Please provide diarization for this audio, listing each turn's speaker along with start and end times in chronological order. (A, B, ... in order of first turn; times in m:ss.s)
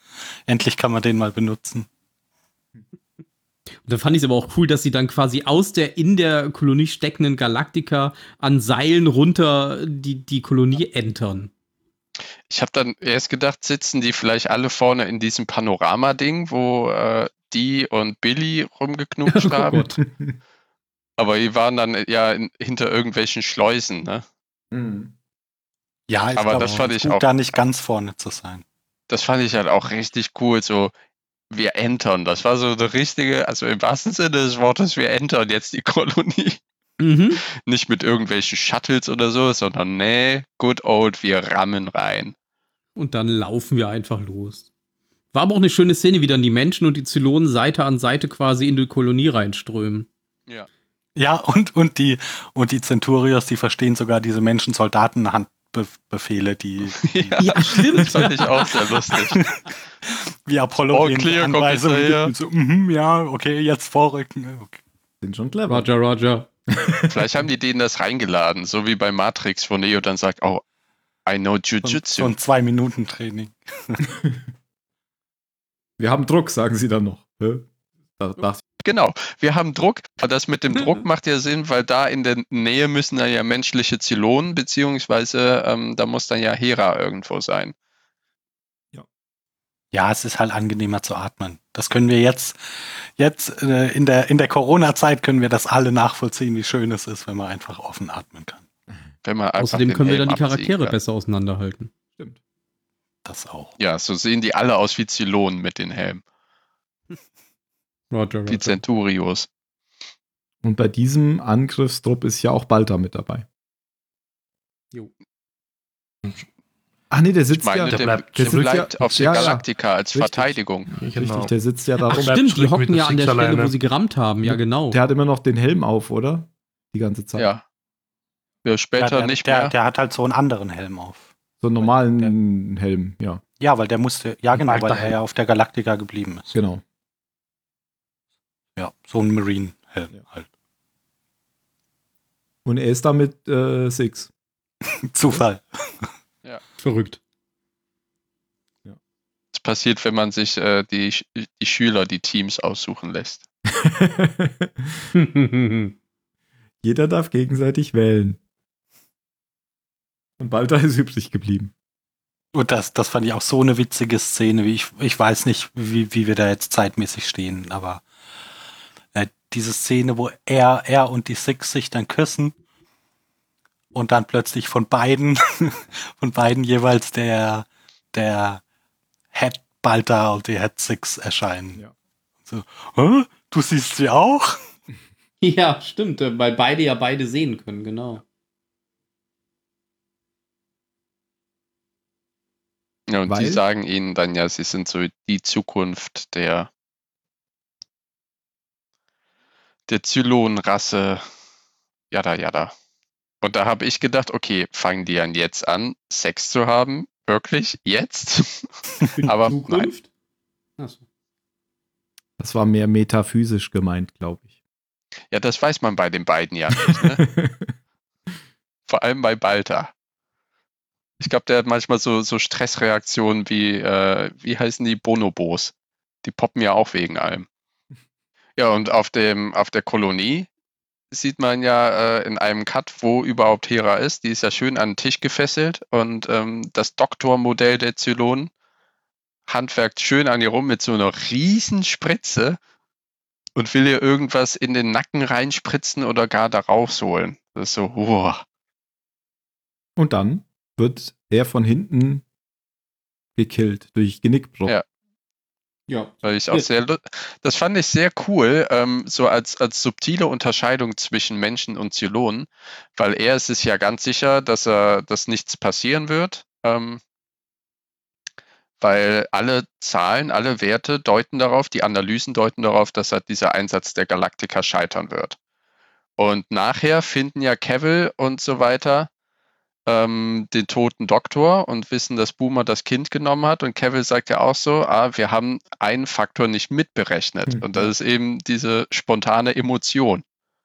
0:00.5-0:01.9 A
0:03.8-0:11.5 B
0:12.5-0:19.8 C
0:19.3-0:20.0 B
0:19.7-0:20.4 D
0:21.2-0:24.2 C
0:24.7-0:25.1 D
0:26.1-0:28.6 A
0:26.3-0:27.2 C
0:29.1-0:30.9 C
0:31.5-0:36.6 C
0:37.0-0:37.4 B
0:37.6-0:42.3 C
0:43.0-0:44.6 B
0:45.3-0:50.1 B
0:51.2-0:57.6 A
0:56.9-0:59.5 C
0:57.4-0:58.7 B
0:59.1-1:04.8 A
1:00.9-1:02.3 C
1:05.2-1:05.9 D
1:05.7-1:06.5 B
1:06.7-1:07.3 D
1:07.1-1:10.6 C
1:11.2-1:12.3 C
1:11.8-1:14.0 A
1:16.0-1:18.6 D
1:18.8-1:27.7 C
1:29.9-1:32.6 A
1:33.2-1:38.6 A
1:39.2-1:41.0 C
1:39.6-1:41.9 B
1:43.2-1:43.7 A
1:43.8-1:46.2 C
1:48.1-1:48.8 B
1:48.5-1:49.5 C
1:50.6-1:53.4 D
1:57.1-2:00.6 D
1:57.5-2:00.9 C
1:57.9-1:59.5 E
2:00.9-2:01.5 E
2:01.1-2:02.4 D
2:02.0-2:03.7 E
2:02.1-2:05.0 B
2:04.4-2:07.5 D
2:07.4-2:07.6 C
2:08.6-2:09.7 C
2:09.0-2:11.3 A
2:11.6-2:13.4 D
2:11.8-2:12.3 A
2:13.6-2:16.5 A
2:14.6-2:15.2 E
2:16.5-2:16.8 D
2:18.8-2:20.5 A
2:22.6-2:24.3 D
2:25.1-2:26.1 A
2:26.8-2:27.2 B
2:29.5-2:33.4 C
2:33.7-2:35.0 D
2:35.1-2:35.9 B
2:36.8-2:38.4 D
2:40.4-2:41.7 D
2:42.5-2:48.0 A
2:49.1-2:52.6 A
2:53.9-2:58.6 A
2:59.3-3:01.8 A
3:02.5-3:04.6 A
3:05.4-3:08.2 B
3:13.1-3:16.7 C
3:13.3-3:13.6 D
3:19.9-3:21.2 C
3:22.1-3:22.7 C
3:23.4-3:29.9 C
3:29.2-3:30.1 B
3:30.8-3:31.0 B
3:32.4-3:34.5 D
3:35.3-3:37.2 C
3:36.9-3:37.7 D
3:38.9-3:39.9 C
3:41.2-3:45.7 C
3:46.2-3:47.5 C
3:48.6-3:50.5 C
3:51.1-3:58.5 C
3:59.5-4:02.6 C
4:03.6-4:08.4 C
4:10.0-4:12.2 D
4:13.4-4:14.7 D
4:15.9-4:16.7 B
4:16.2-4:27.0 C
4:28.8-4:35.4 C
4:36.2-4:39.1 C
4:39.8-4:50.2 C
4:47.5-4:47.9 D